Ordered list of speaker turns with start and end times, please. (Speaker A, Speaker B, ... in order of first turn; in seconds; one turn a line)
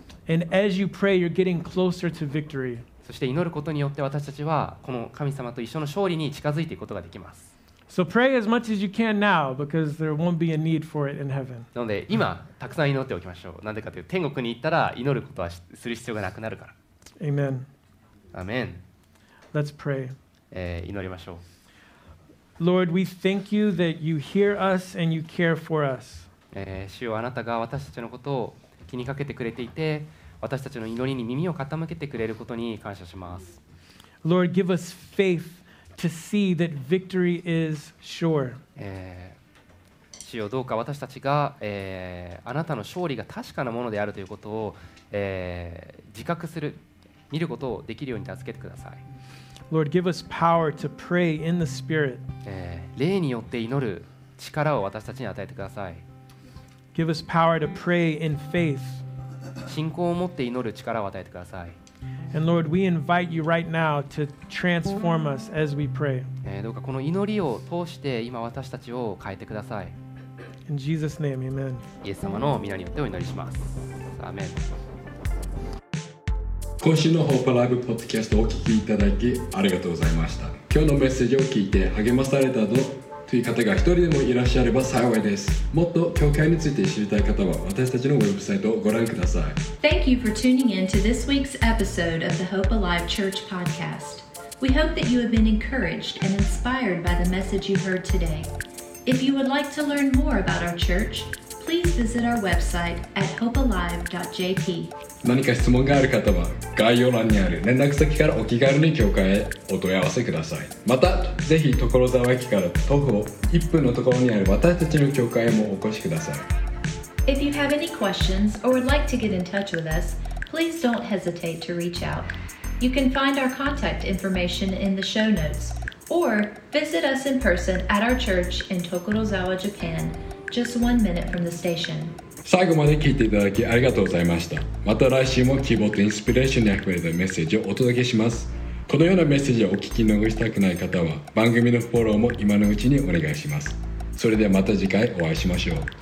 Speaker A: 0.3-2.9
Speaker B: 3.0-7.5
Speaker A: 7.9-11.7
Speaker B: 11.7-16.7
Speaker A: 17.2-17.7
Speaker B: 18.3-18.8
Speaker A: 19.5-20.1
Speaker B: 20.5-21.4
Speaker A: 22.6-26.3
Speaker B: 26.5-33.6
Speaker A: 34.2-38.6
Speaker B: 38.8-39.4
Speaker B: 40.2-49.0
Speaker A: 49.7-52.2
Speaker B: 52.4-56.0
Speaker A: 56.9-59.0
Speaker B: 59.6-61.8
Speaker A: 62.3-66.3
Speaker B: 66.4-70.0
Speaker A: 70.7-71.9
Speaker B: 72.0-74.8
Speaker C: 76.8-89.6
Speaker D: 89.8-98.5
Speaker D: 99.0-104.9
Speaker C: 105.2-116.5
Speaker D: 117.2-132.2
Speaker C: 132.4-145.9